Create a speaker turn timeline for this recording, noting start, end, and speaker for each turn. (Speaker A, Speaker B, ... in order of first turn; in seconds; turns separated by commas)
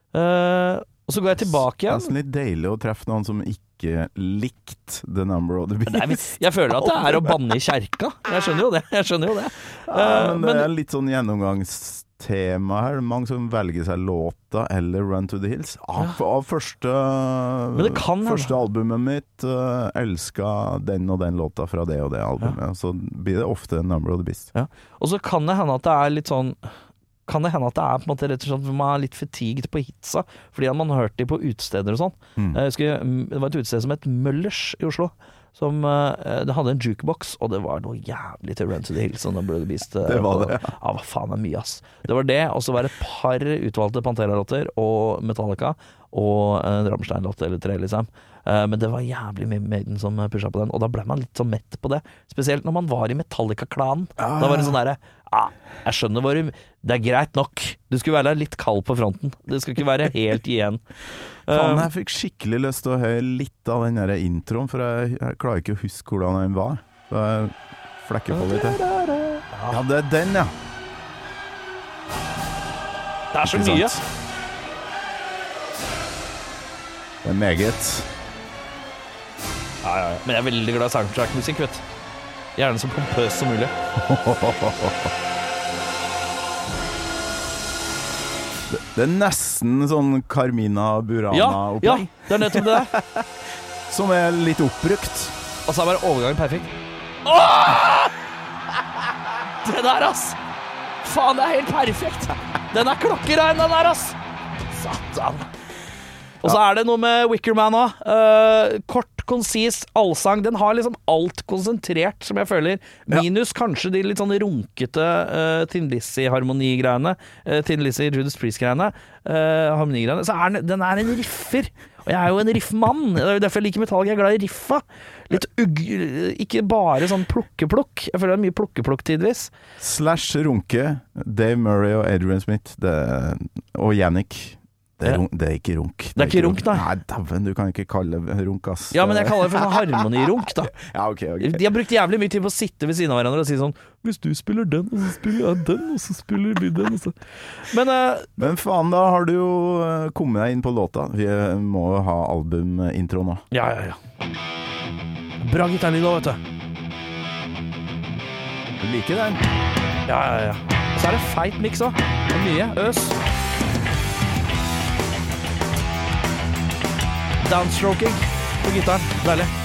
Speaker A: 0.1-2.1, Speaker B: 1.4-7.3, Speaker A: 5.9-10.7, Speaker B: 9.9-24.5, Speaker A: 17.7-18.5, Speaker A: 24.5-26.7, Speaker A: 27.3-60.8, Speaker B: 40.0-40.7, Speaker B: 54.2-54.8, Speaker A: 61.5-61.9, Speaker B: 61.5-68.8, Speaker A: 68.3-69.8, Speaker B: 69.7-70.5, Speaker A: 73.3-74.0, Speaker B: 73.5-74.0, Speaker B: 77.2-78.1, Speaker A: 79.8-81.8, Speaker A: 82.6-83.7, Speaker B: 84.0-85.1, Speaker B: 88.7-93.3, Speaker A: 91.3-92.9, Speaker B: 93.9-95.4, Speaker A: 95.7-96.7, Speaker A: 97.2-98.1, Speaker A: 99.6-100.4, Speaker A: 101.0-104.2, Speaker A: 104.7-105.5, Speaker A: 106.4-129.5, Speaker B: 129.8-141.6, Speaker A: 136.2-136.8, Speaker A: 138.9-140.7, Speaker A: 141.4-148.3, Speaker B: 148.4-153.4, Speaker A: 153.5-154.0, Speaker A: 155.4-156.4, Speaker B: 158.8-159.4, Speaker A: 160.1-163.2, Speaker A: 167.4-169.5